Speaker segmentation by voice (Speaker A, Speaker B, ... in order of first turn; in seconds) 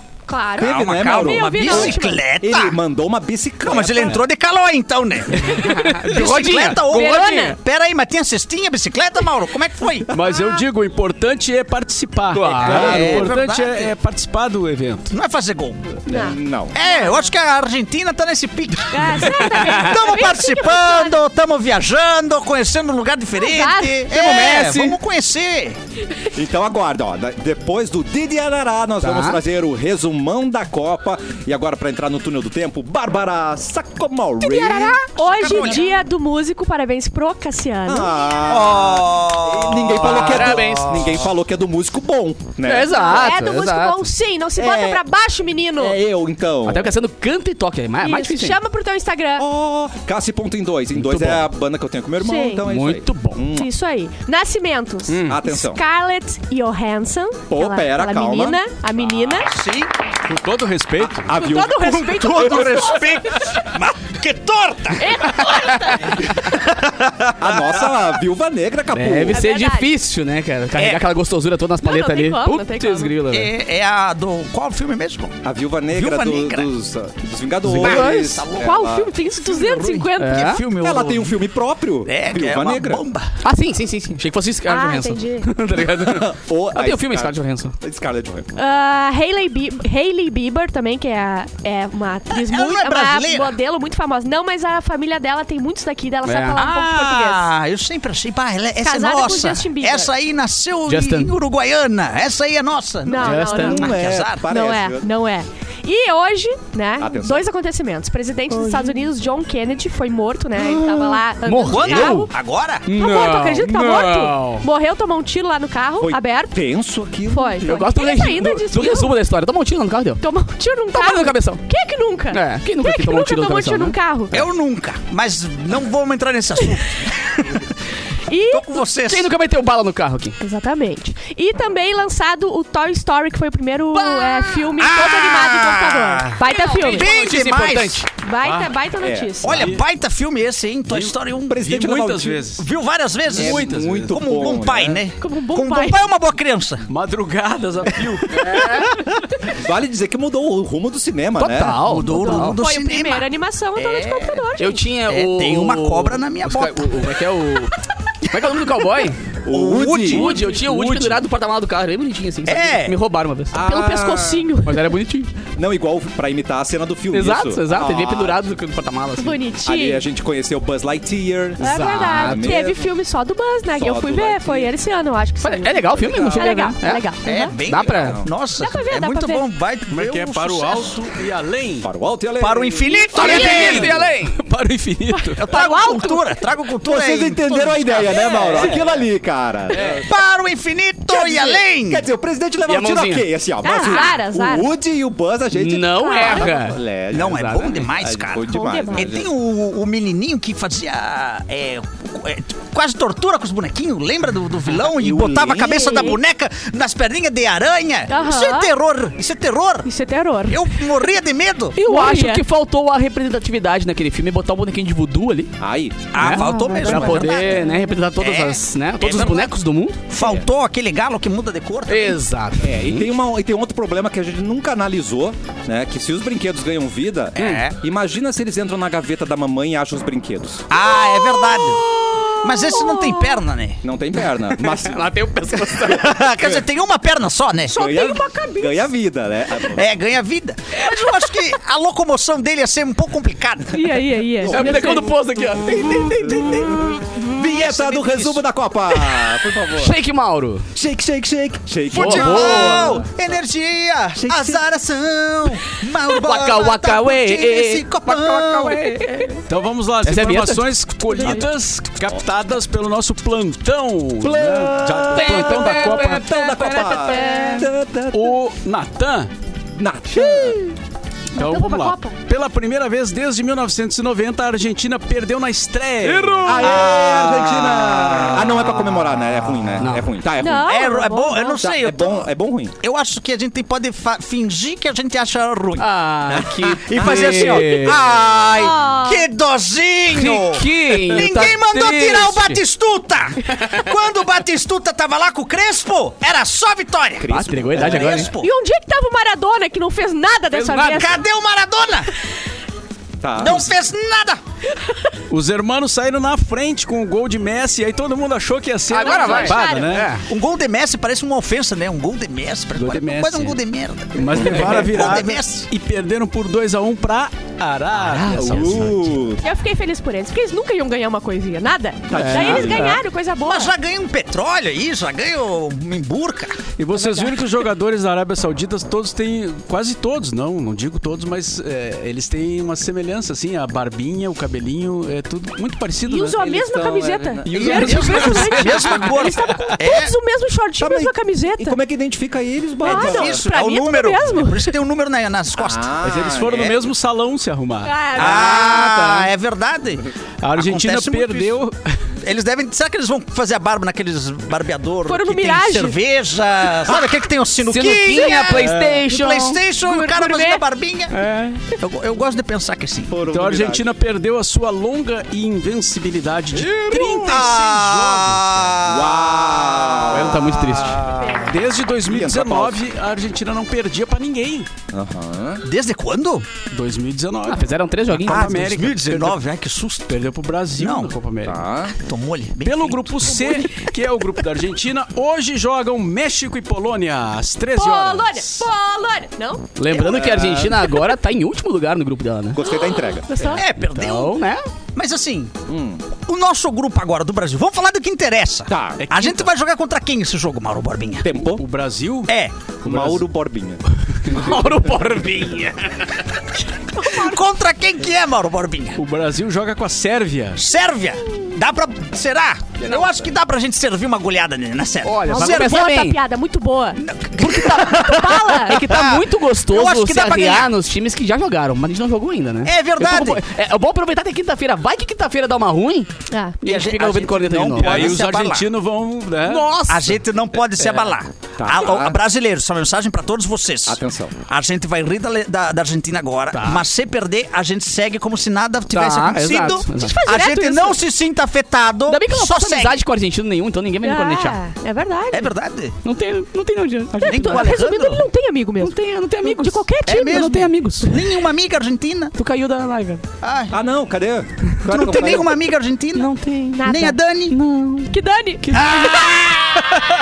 Speaker A: 0.3-2.2, 5.5-5.9, 6.5-7.6, 16.1-17.3, 18.9-21.2, 23.4-24.1, 34.4-38.2, 42.9-46.0, 48.0-49.5, 52.2-52.6, 53.5-59.5, 61.3-63.6, 65.0-66.3, 69.3-69.9, 71.8-73.2, 78.6-80.6, 84.7-85.5, 88.5-97.4, 98.8-100.1, 103.1-112.3, 112.9-116.6, 117.3-119.1, 120.2-124.4, 128.1-128.8, 130.4-137.2, 138.2-139.8, 145.2-146.1, 151.9-154.8, 163.6-164.9, 169.2-170.0, 171.6-177.6, 178.6-179.4, 182.9-183.6, 185.1-186.2, 188.1-188.7, 193.6-194.7, 196.0-196.5, 198.5-199.1, 205.6-206.2, 208.1-208.7, 209.9-210.8, 211.8-212.4, 216.2-217.9, 231.3-231.7, 232.4-233.4, 237.7-238.9, 243.7-245.1, 266.8-267.7, 270.2-270.7, 271.3-272.2, 280.4-281.7, 288.5-289.3, 298.3-301.2, 304.8-305.0, 308.9-310.1, 319.4-323.8, 326.9-327.3, 336.1-341.8, 342.8-344.7, 347.8-348.9, 355.1-356.0, 358.1-358.6, 359.8-360.6, 371.1-371.6, 383.6-383.9, 387.7-389.8, 392.6-393.6, 406.9-407.3, 415.3-418.8, 426.3-426.6, 439.9-441.0, 444.0-445.5, 447.2-450.6, 456.8-457.2, 458.1-459.1
Speaker B: 0.6-2.8, 3.6-10.2, 12.6-13.9, 15.1-16.0, 16.7-25.8, 35.2-35.9, 38.5-41.2, 59.4-59.9, 62.1-68.0, 70.8-71.0, 73.3-75.4, 75.9-76.7, 77.7-78.8, 79.4-81.4, 82.1-83.4, 92.3-93.6, 96.5-104.4, 111.7-112.8, 124.3-127.7, 128.5-129.3, 133.9-138.0, 139.4-141.7, 142.5-146.9, 151.8-154.4, 155.1-157.1, 159.5-161.2, 162.5-162.9, 177.2-180.9, 182.4-184.0, 185.3-188.8, 190.1-192.1, 197.1-209.9, 210.5-211.8, 216.1-219.6, 220.1-222.2, 227.4-227.8, 230.7-231.8, 232.4-233.8, 235.8-237.8, 239.6-243.9, 246.5-246.8, 247.4-248.4, 251.9-259.3, 276.4-279.7, 280.7-282.3, 282.8-285.9, 286.9-298.5, 300.9-302.1, 303.4-304.4, 310.2-315.7, 323.4-326.6, 337.5-340.1, 342.8-346.7, 348.1-351.6, 352.2-361.1, 361.7-363.2, 366.9-370.2, 371.2-371.4, 375.6-376.5, 378.2-380.2, 380.8-381.1, 382.0-383.4, 393.5-394.4, 394.9-395.6, 396.2-401.3, 402.3-402.6, 406.9-409.0, 410.6-415.8, 417.0-420.7, 422.6-423.4, 426.6-428.7, 429.9-443.0, 445.3-446.0, 447.2-448.2, 450.1-452.3, 453.4-453.8, 454.9-456.3, 456.9-457.6, 458.8-460.0
Speaker C: 0.6-4.2, 12.7-13.3, 16.1-16.8, 26.3-35.0, 37.9-43.3, 44.6-45.0, 45.8-46.9, 49.4-53.7, 55.2-55.8, 57.5-58.6, 61.2-63.1, 67.4-69.4, 75.4-79.1, 80.8-83.0, 86.0-88.5, 103.6-105.1, 107.0-107.5, 110.6-111.2, 116.0-117.6, 139.0-139.5, 141.5-142.5, 143.3-145.0, 149.5-151.8, 159.4-160.3, 163.5-164.5, 165.6-168.4, 169.6-172.9, 173.8-174.7, 176.0-176.6, 177.9-178.3, 181.8-184.0, 186.8-190.1, 191.2-199.3, 215.6-216.1, 220.2-220.5, 222.6-230.7, 233.8-235.1, 236.4-236.7, 237.7-239.9, 244.4-245.1, 246.1-250.0, 250.8-253.1, 254.2-254.6, 264.2-268.4, 269.8-270.7, 276.4-280.8, 281.6-282.8, 286.3-288.0, 297.2-298.2, 303.2-303.7, 314.3-314.8, 318.2-319.4, 322.1-323.0, 336.4-338.3, 340.8-343.4, 345.6-346.8, 363.1-363.9, 368.9-370.8, 372.0-372.8, 374.9-375.6, 381.4-381.9, 389.9-390.9, 392.5-393.3, 395.7-396.0, 398.7-399.0, 401.2-401.6, 402.8-403.8, 431.6-432.2, 433.9-434.4, 453.7-455.6
Speaker D: 5.6-7.6, 12.3-13.2, 19.6-19.9, 24.1-25.0, 29.0-29.4, 39.9-41.2, 42.7-44.0, 46.7-48.6, 51.1-51.4, 52.7-53.4, 65.5-66.2, 68.9-73.5, 77.7-78.4, 80.2-80.6, 83.4-87.7, 96.2-96.6, 100.9-101.3, 103.2-103.9, 108.5-108.9, 111.5-112.3, 112.9-114.7, 117.6-120.2, 120.9-121.6, 122.3-124.0, 129.1-130.4, 136.4-138.1, 148.4-148.9, 151.4-152.6, 154.6-159.2, 160.1-163.6, 164.6-165.3, 167.1-169.4, 171.6-172.6, 175.4-177.1, 177.7-178.2, 183.1-184.4, 185.5-186.2, 192.7-193.3, 193.8-194.1, 195.5-197.9, 204.7-206.2, 211.8-215.5, 216.2-220.0, 221.9-223.1, 234.5-236.3, 244.5-246.8, 249.8-250.7, 251.9-253.0, 256.1-259.4, 260.0-261.4, 265.1-267.7, 276.1-276.7, 279.8-280.1, 285.8-288.0, 290.1-292.6, 297.3-298.3, 300.5-301.1, 308.9-310.2, 318.4-318.8, 322.1-323.0, 348.2-349.3, 357.6-359.6, 361.1-361.6, 370.1-371.1, 377.5-378.5, 389.8-392.6, 393.8-394.6, 404.3-406.3, 412.8-413.2, 415.0-416.2, 417.4-426.1, 426.6-428.2, 429.4-430.2, 436.6-436.8, 438.9-440.4, 442.1-444.6, 446.0-447.8, 448.8-451.3, 452.4-453.2, 456.1-459.8
Speaker E: 10.1-15.1, 55.1-55.4, 60.2-61.4, 138.4-138.8, 139.5-139.8, 140.9-142.7, 143.3-144.2, 146.9-148.8, 179.9-181.9, 183.1-185.6, 188.6-188.9, 189.8-190.1, 259.5-266.3, 268.1-269.3, 271.4-277.0, 305.3-310.2, 312.7-313.6, 314.1-319.2, 326.8-336.4, 337.6-338.4, 346.0-348.1, 350.4-352.1, 358.6-359.1, 363.2-368.6, 371.4-374.7, 376.7-379.4, 380.1-381.6, 382.6-388.7, 399.0-399.5, 401.5-402.3, 402.8-403.2, 404.3-404.5, 409.0-410.6, 427.8-429.7